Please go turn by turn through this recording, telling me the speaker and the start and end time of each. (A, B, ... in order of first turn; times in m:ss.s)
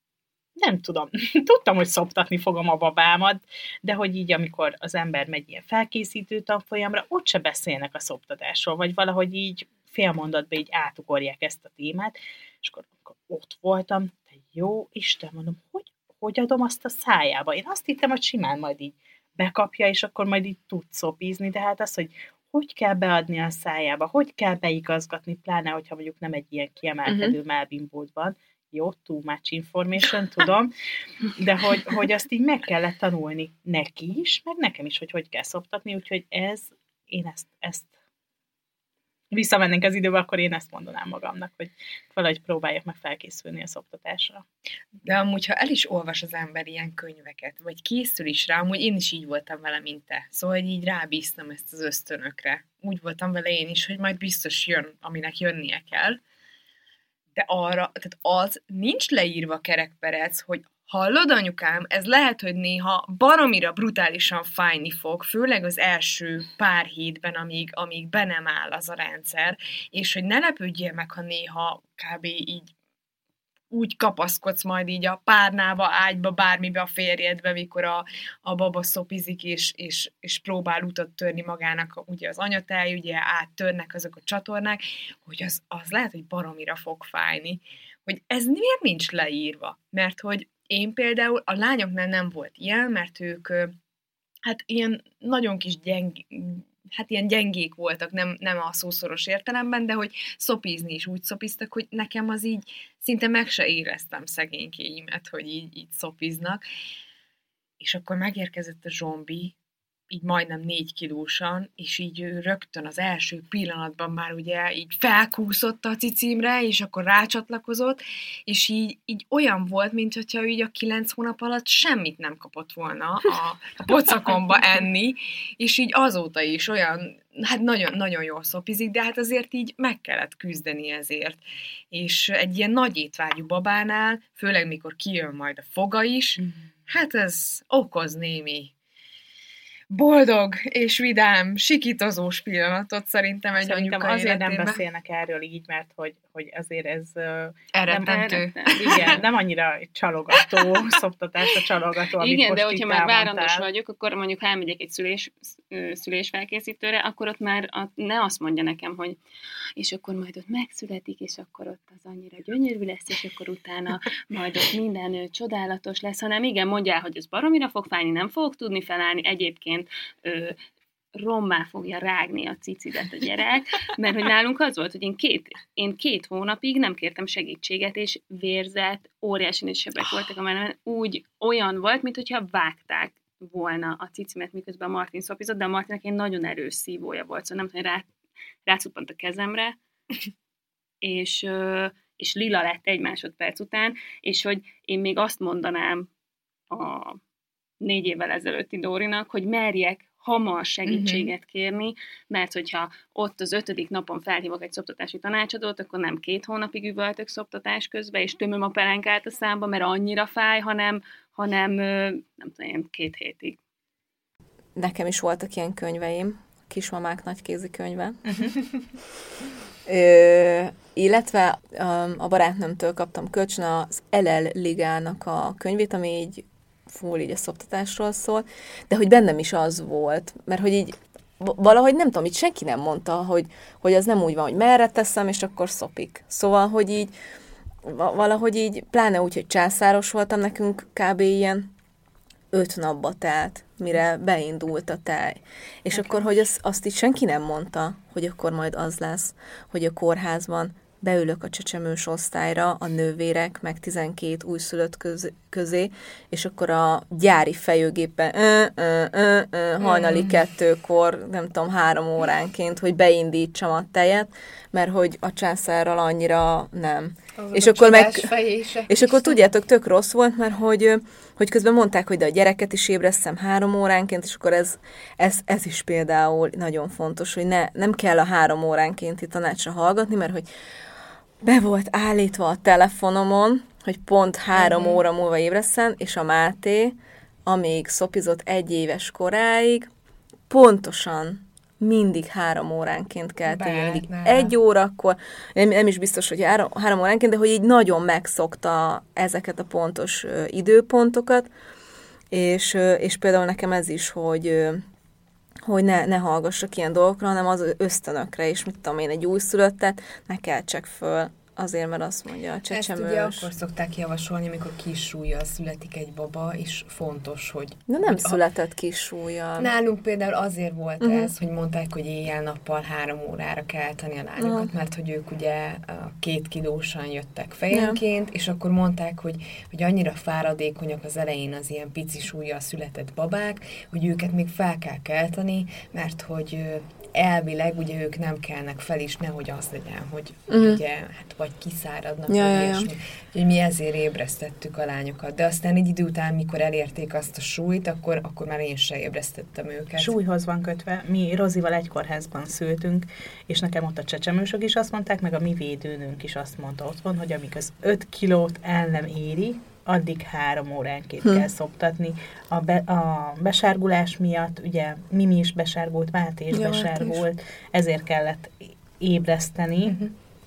0:00.6-0:30.7 A
0:27.0-0:27.4 B
0:31.3-0:37.9 A
0:39.3-0:44.4 A
0:45.0-0:56.2 C
0:57.3-1:12.7 C
1:13.7-1:33.7 C
1:34.4-1:46.6 C
1:47.8-1:49.5 C
1:50.1-2:18.7 C
2:19.9-2:24.8 C
2:23.6-2:33.7 A
2:27.7-2:29.2 C
2:28.0-2:29.2 D
2:30.4-2:30.7 C
2:32.2-2:39.2 D
2:39.8-2:50.6 D
2:51.2-3:08.1 D
3:08.6-3:09.8 D
3:11.0-3:16.1 D
3:16.7-3:17.2 D
3:17.8-3:33.6 D
3:20.8-3:21.3 C
3:34.8-3:38.4 B
3:39.8-3:57.1 B
3:57.8-4:01.7 B
4:02.5-4:28.4 B
4:19.8-4:20.3 C
4:27.4-4:29.4 C
4:28.9-4:40.5 B
4:41.4-4:49.9 B
4:44.5-4:45.0 C
4:50.5-5:01.5 B
4:53.4-4:54.5 C
5:02.3-5:04.8 B
5:05.6-5:13.5 B
5:12.7-5:18.4 C
5:17.9-5:19.7 B
5:19.6-5:50.1 C
5:21.0-5:21.3 B
5:24.4-5:24.7 B
5:27.7-5:28.0 B
5:40.5-5:40.8 B
5:42.3-5:42.9 B
5:50.0-6:10.0 A
6:06.5-6:07.2 B